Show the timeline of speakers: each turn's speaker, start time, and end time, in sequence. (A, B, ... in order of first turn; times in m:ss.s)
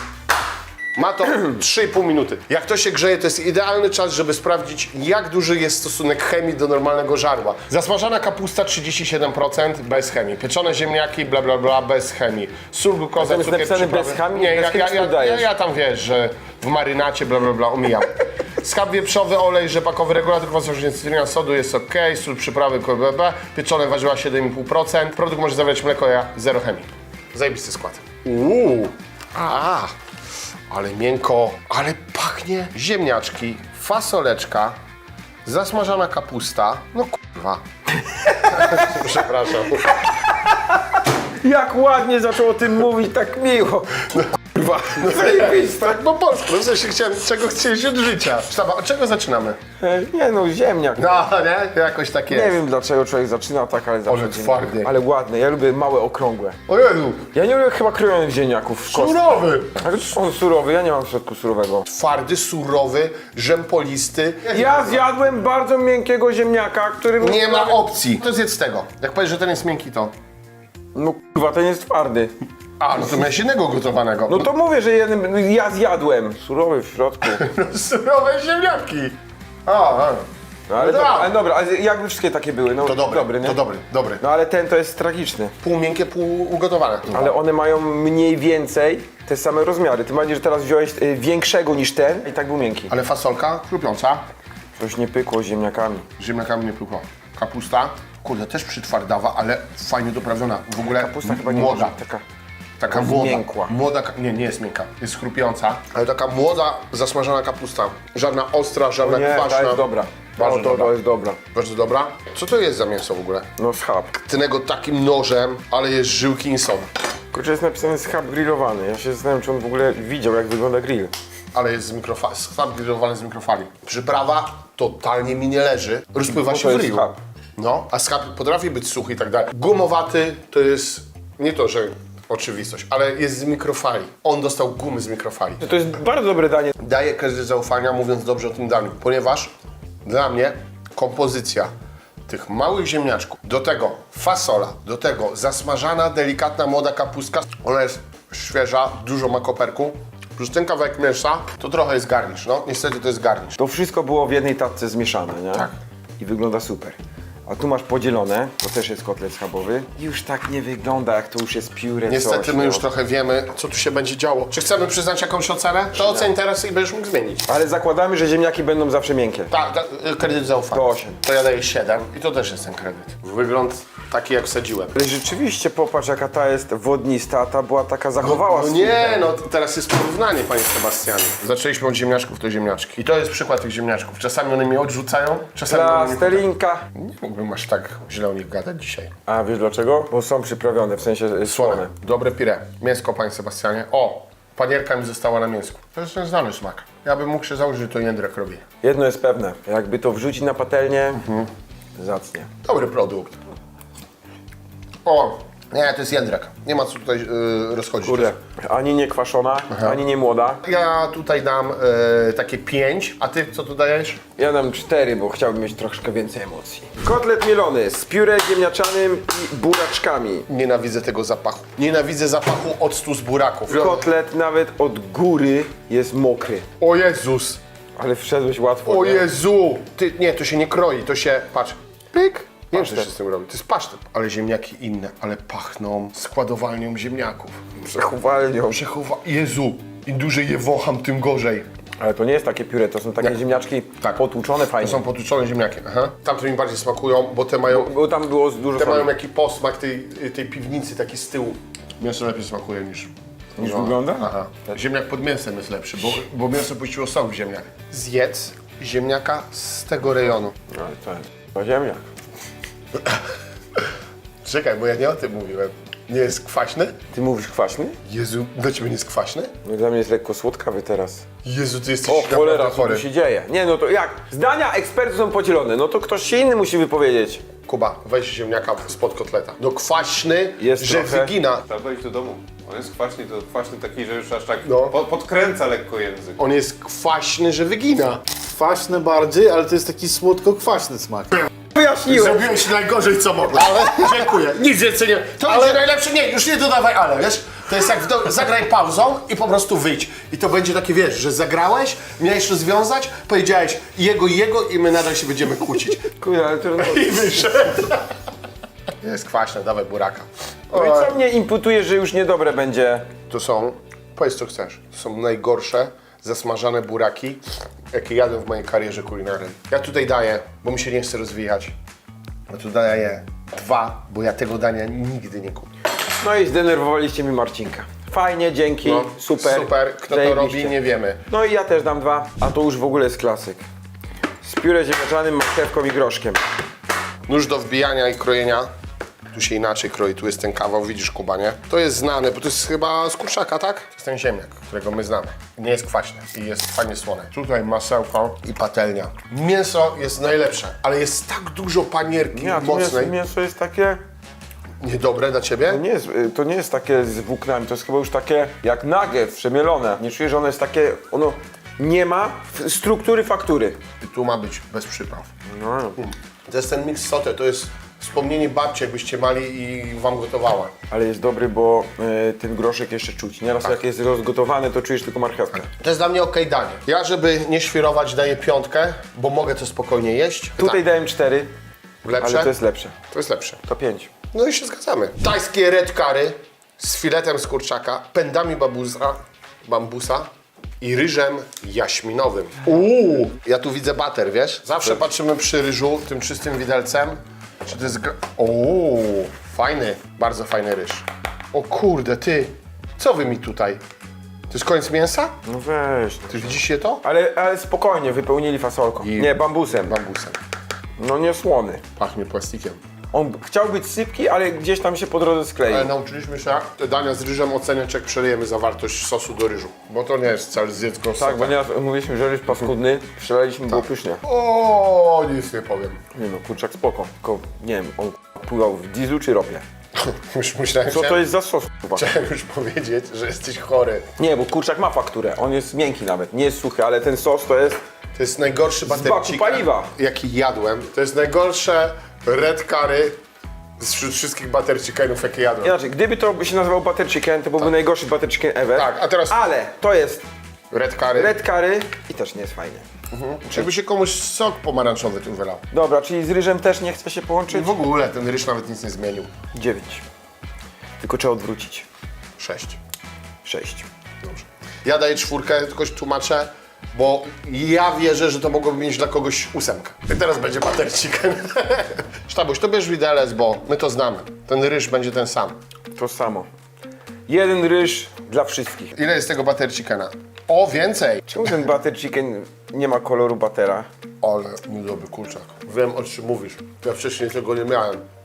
0:01.0-0:29.9 A
0:13.2-0:15.5 B
0:30.7-0:34.8 A
0:35.4-0:37.6 A
0:38.2-0:38.9 B
0:38.5-0:40.0 A
0:40.0-0:46.0 B
0:44.9-0:49.6 A
0:49.8-0:51.1 B
0:51.0-0:52.6 A
0:52.3-0:56.6 B
0:54.1-0:54.9 A
0:56.7-0:57.3 A
0:57.3-1:01.9 B
0:58.9-0:59.8 A
1:01.9-1:05.1 A
1:04.5-1:07.8 B
1:07.2-1:10.1 A
1:10.9-1:12.3 B
1:12.8-1:14.5 A
1:14.3-1:17.4 B
1:17.2-1:20.2 A
1:20.7-1:23.6 B
1:20.8-1:21.4 A
1:22.8-1:24.2 A
1:24.2-1:25.5 B
1:25.6-1:27.4 A
1:27.1-1:32.9 B
1:32.9-1:34.2 A
1:34.8-1:36.1 B
1:36.2-1:42.0 A
1:40.8-1:42.2 B
1:42.8-1:49.8 A
1:42.9-1:43.7 B
1:49.0-1:51.4 B
1:50.4-1:51.0 A
1:51.5-1:53.5 A
1:53.6-1:54.1 B
1:54.1-1:56.9 A
1:57.3-2:01.1 B
2:01.5-2:15.6 A
2:06.3-2:07.2 B
2:15.6-2:16.7 B
2:16.8-2:19.5 A
2:20.0-2:21.7 A
2:22.3-2:33.6 A
2:33.6-2:42.9 B
2:42.1-2:47.5 A
2:46.0-2:46.3 B
2:47.5-2:49.5 B
2:49.5-2:55.0 A
2:50.7-2:51.2 B
2:55.0-2:59.3 B
2:58.2-3:09.1 A
3:05.7-3:06.9 B
3:09.3-3:11.9 B
3:11.4-3:18.6 A
3:18.8-3:21.2 B
3:21.1-3:21.5 A
3:22.0-3:22.5 B
3:22.6-3:23.4 A
3:25.0-3:28.3 A
3:28.0-3:30.6 B
3:29.7-3:30.0 A
3:30.6-3:34.2 A
3:34.4-3:40.5 B
3:40.5-3:44.1 A
3:43.7-3:46.7 B
3:46.8-3:47.6 A
3:48.0-3:49.3 B
3:48.8-3:57.6 A
3:52.7-3:53.1 B
3:57.8-3:58.8 B
3:58.7-4:01.7 A
4:02.0-4:05.0 B
4:04.8-4:07.9 A
4:07.7-4:09.1 B
4:08.8-4:20.6 A
4:13.6-4:14.3 B
4:20.7-4:22.0 B
4:23.0-4:23.2 A
4:24.4-4:27.0 A
4:27.1-4:28.0 B
4:28.0-4:29.5 A
4:29.6-4:31.3 B
4:31.4-4:33.0 A
4:32.1-4:37.4 B
4:37.7-4:41.6 A
4:40.6-4:41.3 B
4:41.7-4:46.4 C
4:42.0-4:42.4 B
4:43.6-4:44.4 B
4:44.6-4:45.0 A
4:46.4-4:48.4 A
4:48.5-4:51.4 D
4:51.8-4:52.5 B
4:51.8-5:06.0 A
5:06.1-5:07.6 B
5:06.8-5:08.0 A
5:09.0-5:11.2 A
5:10.7-5:13.1 B
5:13.3-5:21.8 A
5:22.5-5:25.7 A
5:26.2-5:30.8 B
5:28.8-5:31.2 A
5:31.3-5:33.6 B
5:34.4-5:36.4 B
5:37.3-5:38.7 A
5:39.3-5:53.2 A
5:52.3-5:54.0 B
5:54.8-5:55.8 A
5:55.7-6:03.8 B
6:04.0-6:05.3 A
6:05.5-6:06.0 B
6:06.0-6:10.7 A
6:10.9-6:15.7 B
6:15.8-6:20.8 A
6:20.6-6:21.5 B
6:22.0-6:22.5 A
6:22.2-6:23.0 B
6:23.1-6:23.6 A
6:23.7-6:24.1 B
6:24.3-6:30.3 A
6:30.8-6:43.8 A
6:44.5-6:45.3 A
6:45.5-6:50.0 B
6:46.3-6:47.0 A
6:49.0-6:50.4 A
6:51.0-6:51.8 B
6:52.0-6:52.8 A
6:53.1-6:55.9 B
6:55.7-7:01.6 A
7:01.2-7:04.2 B
7:03.7-7:06.0 A
7:06.1-7:09.6 B
7:10.0-7:11.2 A
7:10.9-7:12.0 B
7:11.9-7:14.1 A
7:14.2-7:17.8 B
7:18.2-7:23.2 A
7:18.9-7:19.9 B
7:23.8-7:25.7 A
7:25.6-7:30.2 B
7:28.7-7:29.5 A
7:30.7-7:31.4 A
7:31.1-7:32.8 B
7:33.1-7:35.6 A
7:35.7-7:37.8 B
7:37.5-7:39.3 A
7:39.5-7:40.0 B
7:41.0-7:41.9 B
7:42.4-7:42.8 A
7:43.4-7:43.9 B
7:44.2-7:55.6 A
7:55.9-7:56.5 B
7:57.3-7:58.9 B
7:59.0-8:01.7 A
8:01.3-8:03.9 B
8:04.2-8:08.0 A